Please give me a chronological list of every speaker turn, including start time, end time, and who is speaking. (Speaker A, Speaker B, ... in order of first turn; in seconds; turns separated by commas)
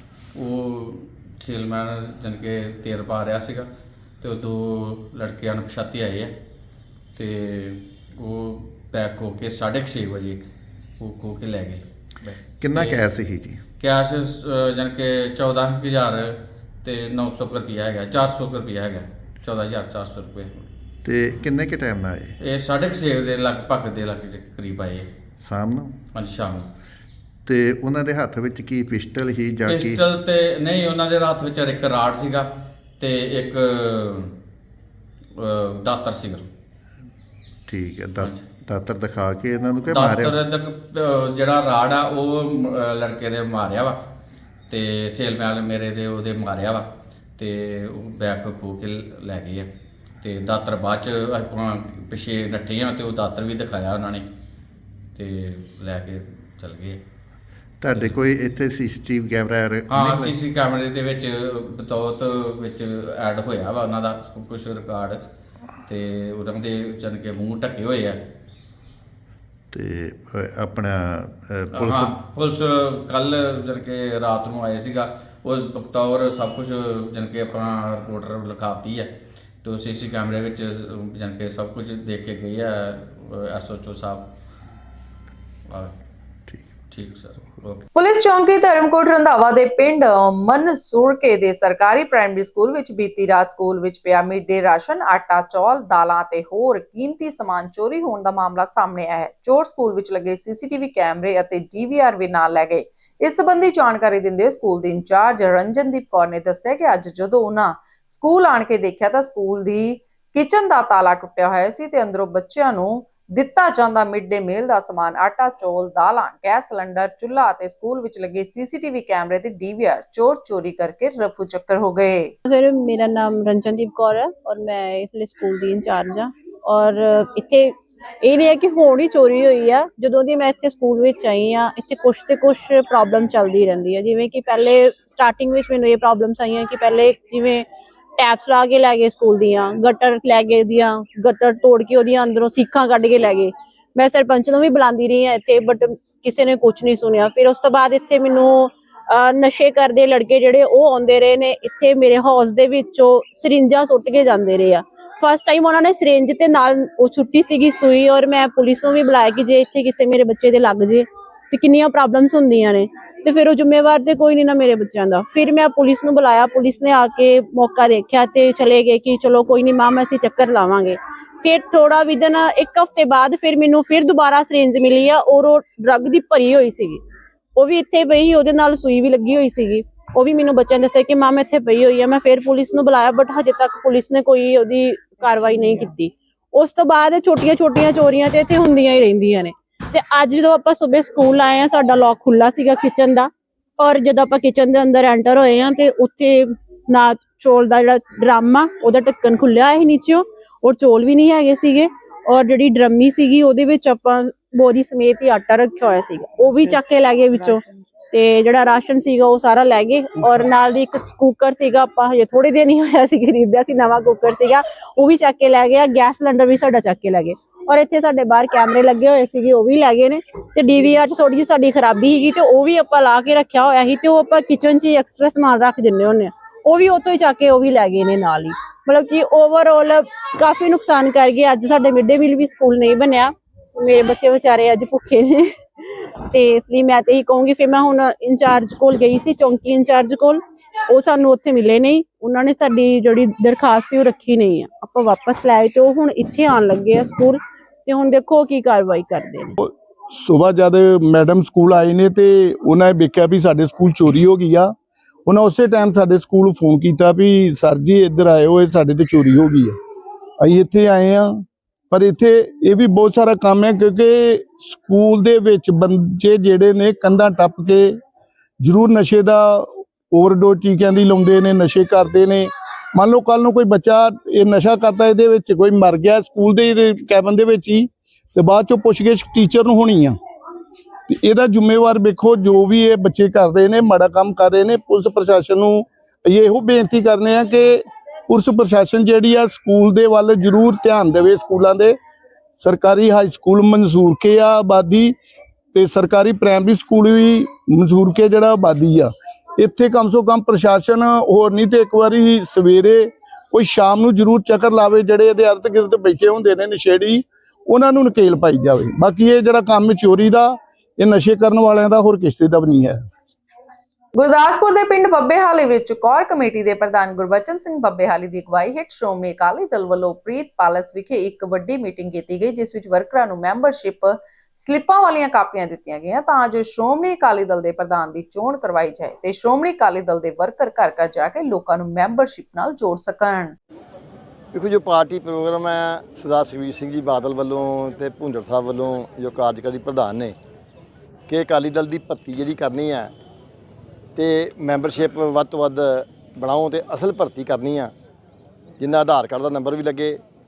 Speaker A: 0.3-3.7, Speaker A: 4.2-6.3, Speaker A: 7.2-10.5, Speaker A: 11.0-13.1, Speaker B: 12.6-13.6, Speaker A: 13.8-20.7, Speaker B: 21.0-22.4, Speaker A: 22.4-25.1, Speaker B: 25.4-25.9, Speaker A: 26.1-26.7, Speaker B: 27.5-30.0, Speaker A: 29.6-32.5, Speaker A: 33.0-34.3, Speaker A: 35.4-36.5, Speaker B: 37.7-40.4, Speaker A: 38.2-38.4, Speaker A: 39.9-44.0, Speaker A: 44.7-49.7, Speaker A: 50.2-54.3, Speaker A: 55.1-57.0, Speaker B: 57.8-60.4, Speaker A: 57.9-58.1, Speaker A: 59.9-65.2, Speaker A: 65.9-68.2, Speaker B: 69.7-72.2, Speaker A: 71.7-79.1, Speaker A: 79.6-84.3, Speaker A: 86.9-87.9, Speaker C: 88.0-122.3, Speaker D: 122.5-137.7, Speaker D: 138.2-177.0, Speaker D: 177.6-249.6, Speaker E: 249.6-254.7, Speaker E: 255.3-259.8, Speaker E: 260.4-268.0, Speaker E: 268.6-280.2, Speaker E: 281.1-292.0, Speaker E: 292.6-295.1, Speaker E: 295.7-313.0, Speaker C: 314.1-333.6, Speaker F: 334.5-340.4, Speaker F: 341.3-343.1, Speaker F: 344.2-347.9, Speaker F: 348.8-350.2